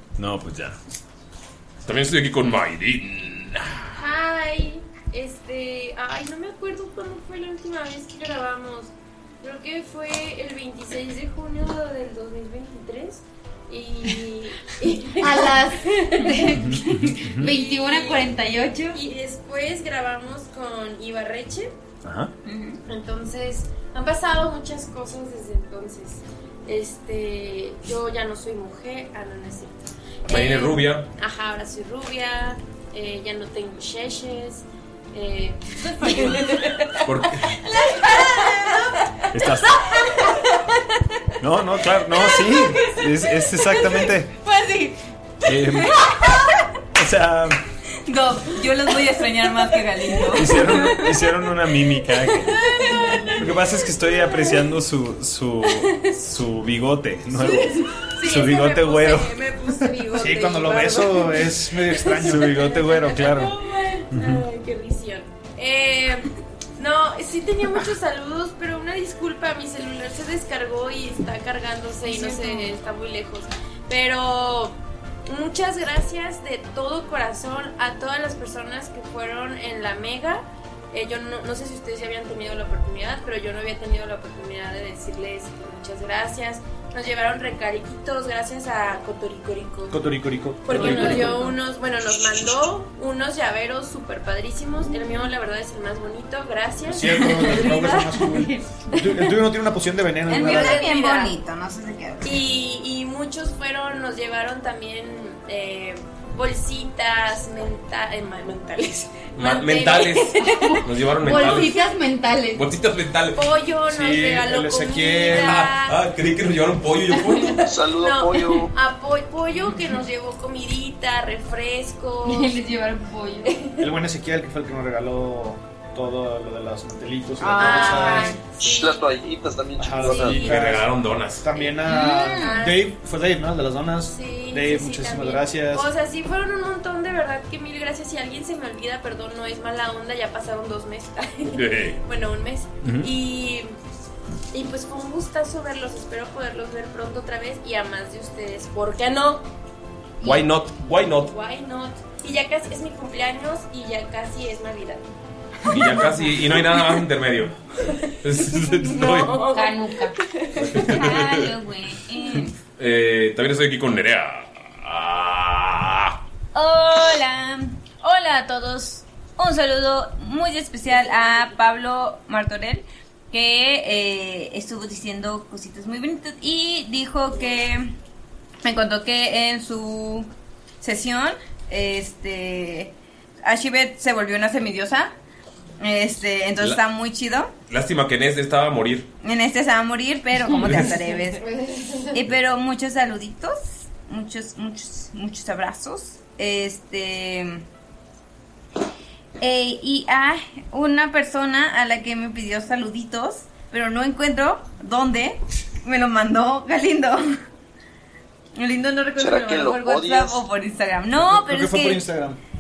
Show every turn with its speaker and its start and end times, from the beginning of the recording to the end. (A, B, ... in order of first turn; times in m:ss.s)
0:00.2-0:00.8 A
0:01.8-0:03.9 B
0:04.0-0:16.6 C
0:15.1-0:19.0 D
0:16.6-0:17.5 A
0:17.4-0:18.4 C
0:18.9-0:21.7 C
0:22.0-0:22.3 A
0:22.4-0:22.8 E
0:22.9-0:37.0 C
0:30.3-0:31.1 B
0:37.0-0:37.6 B
0:37.8-0:38.8 E
0:38.0-0:38.9 C
0:39.3-0:39.9 A
0:41.4-0:44.4 A
0:42.2-0:42.8 E
0:43.8-0:46.5 E
0:45.4-0:46.2 A
0:46.9-0:47.6 A
0:48.1-0:51.4 E
0:50.3-0:52.7 A
0:52.6-0:54.4 C
0:52.7-0:53.3 E
0:53.4-1:00.1 A
0:55.7-0:56.2 C
0:57.4-1:30.0 C
1:00.2-1:02.8 F
1:02.2-1:03.6 A
1:04.1-1:04.4 A
1:12.3-1:12.6 D
1:29.9-1:31.5 F
1:30.6-1:38.3 C
1:36.9-1:40.9 F
1:37.7-1:38.6 D
1:40.3-1:42.4 E
1:40.3-1:41.4 C
1:42.2-1:50.6 C
1:49.4-1:51.8 B
1:50.6-1:52.6 D
1:51.4-1:51.9 C
1:52.6-1:53.5 B
1:53.4-1:56.0 C
1:53.9-1:55.7 F
1:55.3-1:57.7 B
1:57.7-1:58.7 G
1:57.9-2:02.6 C
2:02.2-2:03.8 D
2:03.4-2:03.9 C
2:03.8-2:08.3 F
2:07.4-2:08.4 E
2:07.6-2:09.1 C
2:08.6-2:10.5 G
2:09.8-2:15.9 F
2:10.0-2:11.4 B
2:11.9-2:12.6 E
2:12.3-2:12.8 C
2:14.1-2:23.7 C
2:21.5-2:22.0 B
2:22.8-2:23.1 A
2:24.5-2:29.5 C
2:30.2-2:31.3 B
2:31.2-2:35.1 C
2:35.7-2:37.5 B
2:37.8-2:38.1 C
2:38.2-2:39.3 B
2:38.7-2:40.7 C
2:39.5-2:40.2 D
2:40.6-2:41.5 B
2:40.8-2:42.6 E
2:42.8-2:46.2 B
2:46.5-2:57.9 E
2:58.6-3:00.3 E
3:00.8-3:02.9 E
3:03.4-3:05.1 E
3:05.8-3:07.5 E
3:07.7-3:09.1 B
3:09.2-3:11.4 E
3:10.6-3:10.9 B
3:11.3-3:12.2 C
3:12.1-3:17.6 E
3:19.4-3:27.4 E
3:28.6-3:32.0 E
3:29.2-3:30.4 G
3:31.1-3:32.4 F